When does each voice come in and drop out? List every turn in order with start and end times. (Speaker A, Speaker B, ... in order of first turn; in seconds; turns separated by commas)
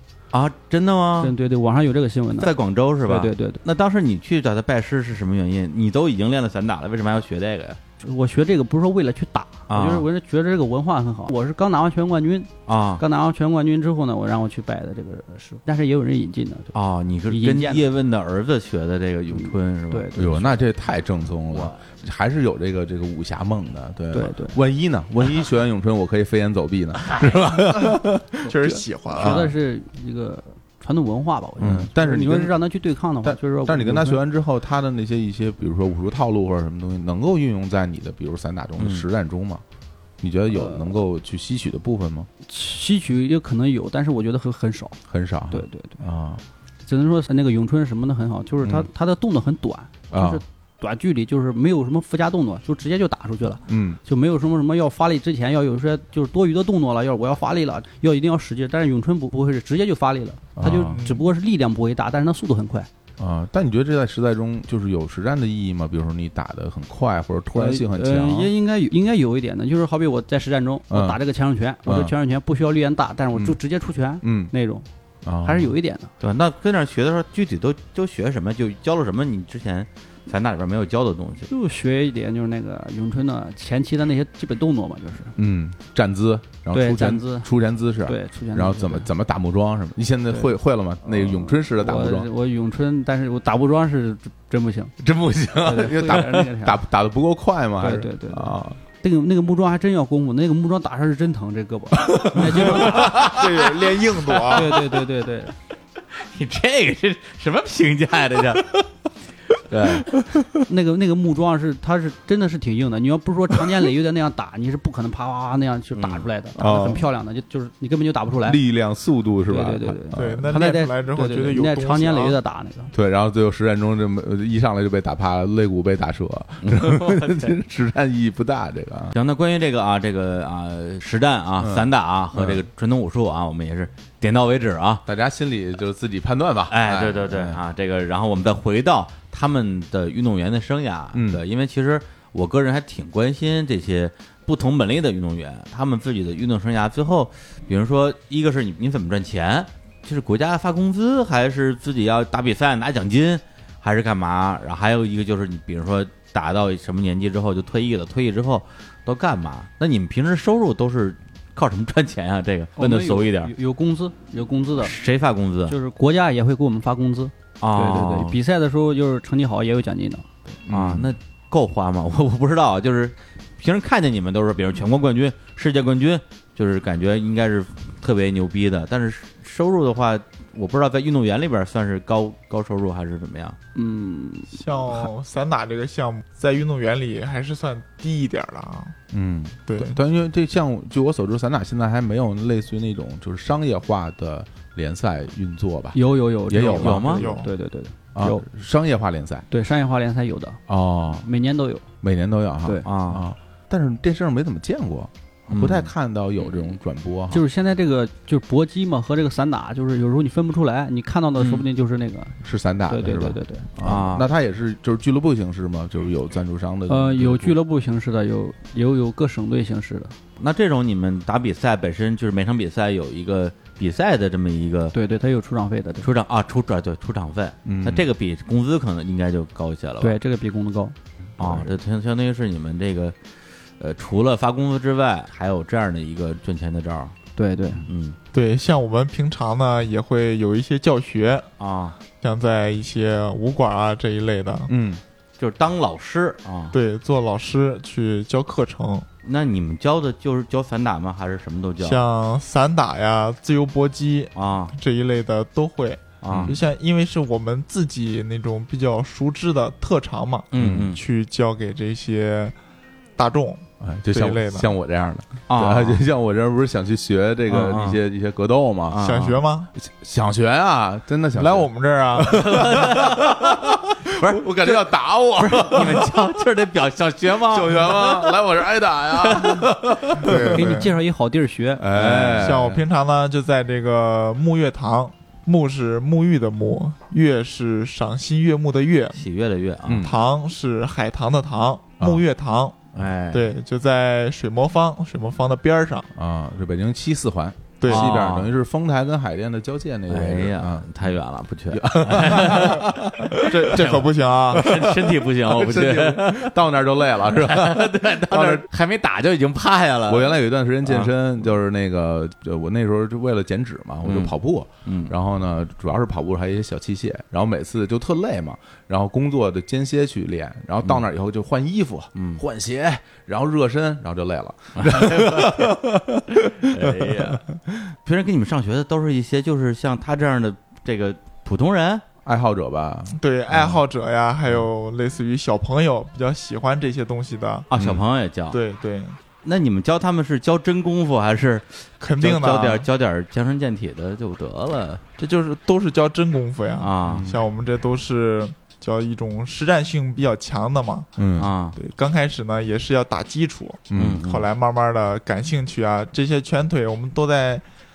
Speaker A: 0.3-1.3, Speaker B: 1.2-2.5, Speaker A: 2.4-7.8, Speaker B: 3.1-3.6, Speaker B: 8.0-16.7, Speaker A: 9.7-10.1, Speaker A: 12.7-13.0, Speaker A: 16.7-20.1, Speaker B: 17.3-17.8, Speaker B: 19.3-20.6, Speaker C: 20.1-29.5, Speaker A: 21.5-21.8, Speaker B: 24.1-24.6, Speaker D: 28.4-29.4, Speaker B: 29.1-34.2, Speaker C: 31.6-32.6, Speaker C: 33.2-39.6, Speaker A: 38.8-39.0, Speaker C: 40.2-42.3, Speaker B: 40.5-40.9, Speaker B: 42.5-45.0, Speaker C: 45.1-46.4, Speaker B: 45.5-46.0, Speaker B: 46.9-62.9, Speaker C: 48.6-48.9, Speaker C: 50.1-50.4, Speaker C: 53.7-54.0, Speaker C: 60.5-61.0, Speaker D: 60.9-61.2, Speaker C: 63.2-68.5, Speaker B: 67.5-74.8, Speaker C: 70.9-71.2, Speaker C: 71.8-72.1, Speaker C: 74.2-74.5, Speaker C: 75.2-75.7, Speaker B: 75.4-76.1, Speaker A: 76.2-81.5, Speaker B: 81.5-85.3, Speaker C: 85.3-92.3, Speaker B: 86.7-87.5, Speaker B: 88.0-89.1, Speaker B: 91.1-94.9, Speaker C: 95.0-98.8, Speaker B: 95.6-96.8, Speaker B: 97.8-103.1, Speaker C: 102.0-103.4, Speaker A: 102.4-103.6, Speaker D: 102.9-104.8, Speaker B: 104.5-105.5, Speaker A: 106.1-108.7, Speaker A: 109.5-110.1, Speaker C: 110.0-110.6, Speaker B: 110.7-118.6, Speaker A: 115.9-116.2, Speaker C: 116.6-117.0, Speaker C: 118.4-120.6, Speaker B: 119.5-122.9, Speaker D: 120.1-122.4, Speaker C: 122.9-129.1, Speaker A: 126.6-127.5, Speaker A: 129.1-135.0, Speaker C: 131.6-132.6, Speaker C: 135.1-137.6, Speaker A: 136.7-163.5, Speaker C: 141.1-141.4, Speaker B: 162.8-164.9, Speaker A: 164.8-165.7, Speaker B: 165.7-170.2, Speaker A: 167.6-168.4, Speaker C: 170.6-171.1, Speaker A: 170.7-183.6, Speaker B: 183.7-184.7, Speaker D: 184.5-188.9, Speaker C: 189.1-197.2, Speaker D: 189.7-190.0, Speaker B: 195.9-198.5, Speaker A: 196.8-197.2, Speaker D: 197.0-197.5, Speaker C: 198.1-199.4, Speaker B: 199.5-200.6, Speaker C: 200.7-201.2, Speaker B: 201.1-201.8, Speaker C: 202.0-207.4, Speaker A: 202.8-203.2, Speaker A: 205.5-206.7, Speaker B: 207.3-212.4, Speaker A: 211.4-211.6, Speaker C: 212.4-217.6, Speaker B: 212.9-213.7, Speaker A: 213.8-214.3, Speaker B: 216.9-220.2, Speaker A: 220.4-224.9, Speaker B: 224.9-226.1, Speaker A: 226.0-230.2, Speaker C: 227.7-228.1, Speaker B: 230.0-230.9, Speaker A: 231.4-233.2, Speaker C: 231.4-231.7, Speaker A: 233.8-237.1, Speaker B: 237.3-237.8, Speaker A: 237.8-238.2, Speaker D: 238.3-241.5, Speaker A: 241.6-242.0, Speaker D: 242.2-244.7, Speaker C: 244.7-245.0, Speaker A: 245.4-246.7, Speaker D: 246.7-249.1, Speaker A: 249.2-252.0, Speaker D: 251.8-262.5, Speaker A: 254.3-254.7, Speaker A: 256.2-256.6, Speaker C: 256.3-256.6, Speaker A: 260.5-261.0, Speaker C: 260.5-260.9, Speaker D: 263.2-264.7, Speaker C: 263.8-269.1, Speaker A: 265.5-266.0, Speaker A: 267.5-268.0, Speaker A: 268.9-269.4, Speaker D: 269.0-269.7, Speaker C: 269.7-276.2, Speaker D: 271.4-272.9, Speaker A: 272.3-273.6, Speaker A: 274.1-278.4, Speaker C: 277.4-280.8, Speaker A: 279.1-279.7, Speaker D: 280.2-280.9, Speaker B: 280.5-281.8, Speaker C: 281.8-282.8, Speaker A: 281.9-282.7, Speaker D: 282.0-289.2, Speaker A: 289.1-290.0, Speaker C: 289.9-290.2, Speaker D: 290.0-292.8, Speaker A: 292.9-293.4, Speaker D: 293.3-296.1, Speaker C: 296.1-301.1, Speaker D: 297.8-298.1, Speaker A: 297.9-298.5, Speaker A: 300.1-303.0, Speaker C: 301.7-308.6, Speaker D: 303.3-304.6, Speaker A: 303.7-306.6, Speaker A: 307.2-311.1, Speaker C: 310.1-327.4, Speaker A: 314.0-315.1, Speaker A: 322.1-322.4, Speaker A: 324.8-325.7, Speaker A: 326.6-327.4, Speaker A: 328.0-332.0, Speaker C: 332.2-333.2, Speaker D: 333.1-337.7, Speaker A: 333.5-333.8, Speaker A: 337.7-338.6, Speaker C: 337.7-338.0, Speaker D: 338.5-339.2, Speaker A: 339.4-345.0, Speaker D: 342.0-342.9, Speaker D: 345.2-351.1, Speaker A: 346.8-347.3, Speaker C: 347.0-347.4, Speaker C: 351.2-351.5, Speaker A: 351.4-351.8, Speaker D: 351.8-357.6, Speaker C: 353.9-354.2, Speaker A: 353.9-354.4